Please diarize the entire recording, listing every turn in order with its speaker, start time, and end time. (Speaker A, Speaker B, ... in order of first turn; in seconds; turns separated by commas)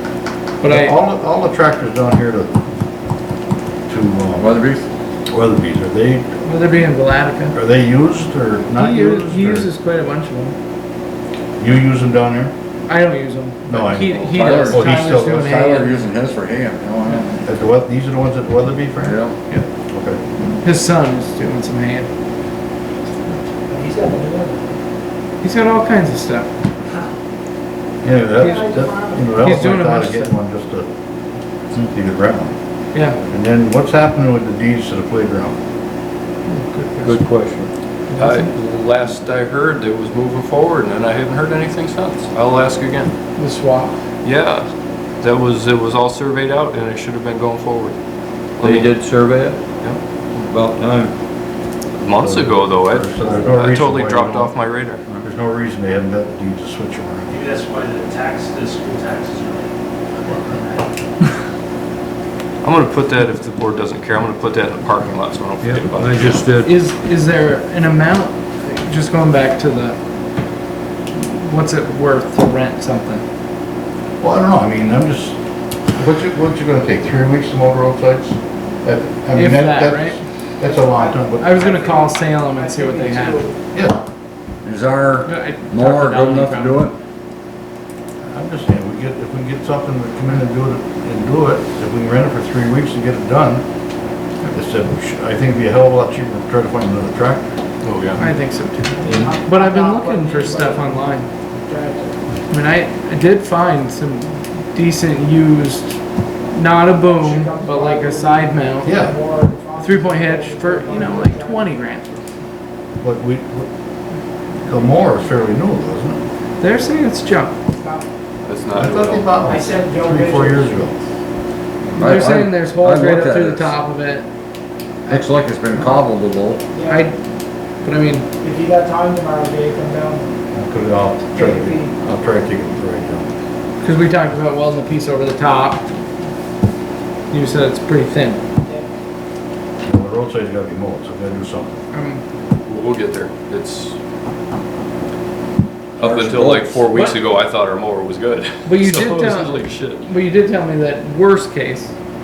Speaker A: 0.6-1.0, Speaker B: 0.7-2.6, Speaker B: 3.9-4.5, Speaker C: 4.4-4.9, Speaker B: 5.3-6.3, Speaker A: 6.4-7.6, Speaker B: 7.5-9.7, Speaker A: 8.8-10.6, Speaker B: 11.6-12.5, Speaker A: 12.9-16.0, Speaker B: 13.7-15.5, Speaker C: 14.2-17.4, Speaker B: 17.4-19.2, Speaker C: 19.0-19.4, Speaker B: 19.7-20.2, Speaker A: 20.6-22.1, Speaker D: 23.7-24.8, Speaker A: 25.4-26.5, Speaker B: 28.0-30.9, Speaker D: 28.4-29.3, Speaker A: 29.4-30.3, Speaker B: 31.8-32.5, Speaker A: 32.9-33.2, Speaker B: 33.2-35.6, Speaker A: 36.5-37.2, Speaker E: 37.0-37.7, Speaker A: 38.1-38.5, Speaker F: 38.2-43.1, Speaker A: 43.4-44.0, Speaker F: 44.2-48.0, Speaker F: 48.6-48.9, Speaker E: 48.6-49.6, Speaker E: 50.4-51.1, Speaker F: 52.0-55.0, Speaker B: 52.2-54.5, Speaker B: 55.2-57.4, Speaker G: 57.3-60.9, Speaker F: 62.6-66.5, Speaker E: 65.6-66.8, Speaker A: 66.7-70.0, Speaker A: 71.1-73.2, Speaker B: 74.2-75.4, Speaker B: 75.9-81.7, Speaker A: 79.3-80.2, Speaker D: 80.6-83.6, Speaker A: 81.4-83.4, Speaker B: 83.7-84.0, Speaker C: 84.6-87.0, Speaker A: 85.3-86.9, Speaker B: 88.2-93.7, Speaker B: 94.5-97.5, Speaker F: 97.8-98.2, Speaker A: 98.2-101.3, Speaker D: 98.9-102.2, Speaker A: 102.5-106.0, Speaker A: 106.5-109.0, Speaker D: 107.0-111.8, Speaker B: 108.8-109.2, Speaker A: 109.8-112.2, Speaker B: 113.0-113.7, Speaker B: 114.6-116.2, Speaker A: 116.6-117.6, Speaker D: 117.7-118.1, Speaker F: 118.5-119.3, Speaker B: 118.7-121.0, Speaker D: 119.4-121.0, Speaker C: 122.0-123.7, Speaker A: 122.0-124.3, Speaker C: 125.1-126.8, Speaker D: 126.7-127.1, Speaker A: 126.8-127.2, Speaker A: 127.8-128.3, Speaker D: 128.4-130.3, Speaker B: 130.5-133.3, Speaker D: 131.3-131.9, Speaker A: 133.8-135.9, Speaker A: 137.3-138.4, Speaker D: 138.6-138.9, Speaker B: 139.8-141.8, Speaker A: 141.9-142.2, Speaker F: 142.7-144.0, Speaker F: 146.0-150.0, Speaker C: 146.0-146.8, Speaker A: 146.9-147.2, Speaker A: 148.7-151.9